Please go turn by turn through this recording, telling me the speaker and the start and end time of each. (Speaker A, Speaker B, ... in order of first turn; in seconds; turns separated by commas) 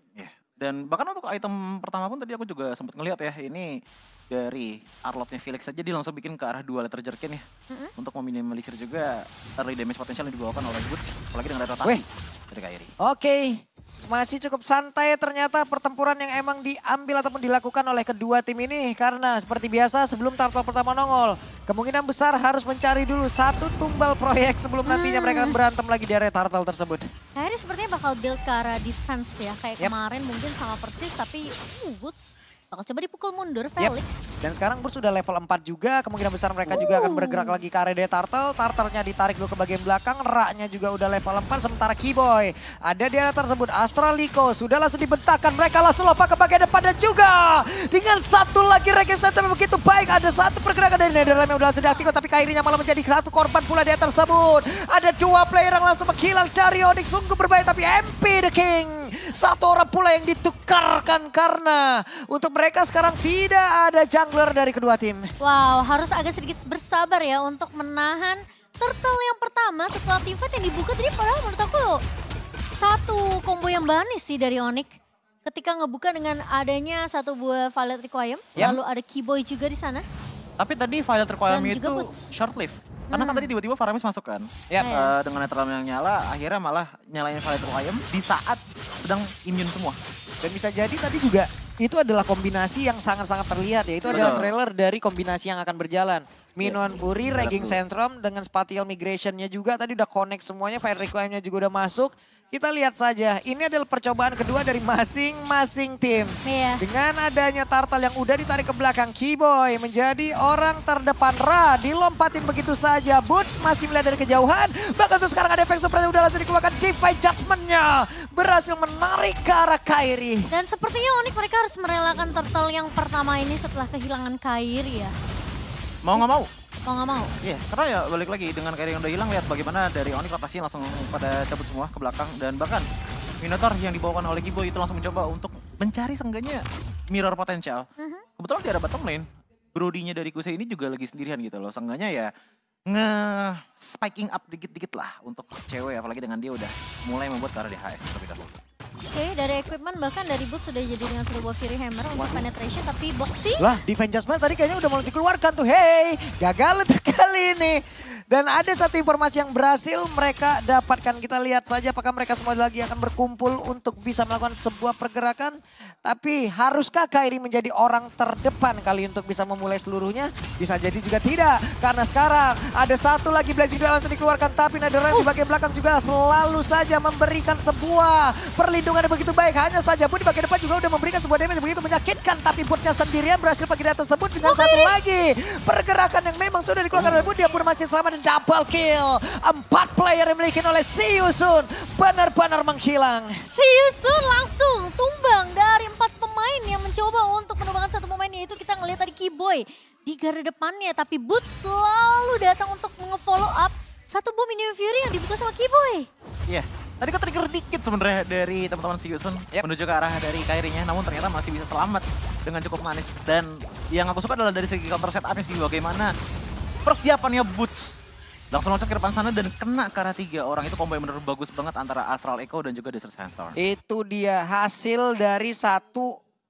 Speaker A: 0.2-7.4, Speaker A: 8.0-12.9, Speaker B: 13.0-27.1, Speaker C: 24.9-25.6, Speaker C: 27.4-34.2, Speaker B: 33.8-65.3, Speaker C: 36.7-37.6, Speaker C: 51.8-52.1, Speaker C: 65.4-72.0, Speaker C: 72.7-74.9, Speaker C: 75.4-80.0, Speaker A: 80.6-90.0, Speaker C: 81.5-82.1, Speaker C: 83.1-83.5, Speaker C: 84.8-85.1, Speaker B: 90.4-120.5, Speaker A: 94.0-94.5, Speaker C: 94.1-94.4, Speaker A: 96.6-97.8, Speaker C: 106.4-106.8, Speaker C: 120.5-125.1, Speaker A: 126.0-126.5, Speaker C: 126.8-127.3, Speaker A: 127.4-132.8, Speaker A: 133.4-137.8, Speaker C: 138.0-138.2, Speaker A: 138.4-142.3, Speaker A: 142.9-148.6, Speaker C: 149.0-153.7, Speaker B: 152.1-152.4, Speaker B: 153.6-193.4, Speaker C: 184.4-184.9, Speaker A: 186.9-187.2, Speaker C: 193.4-206.1, Speaker A: 206.5-216.1, Speaker A: 216.8-218.0, Speaker A: 218.5-223.6, Speaker B: 223.6-226.2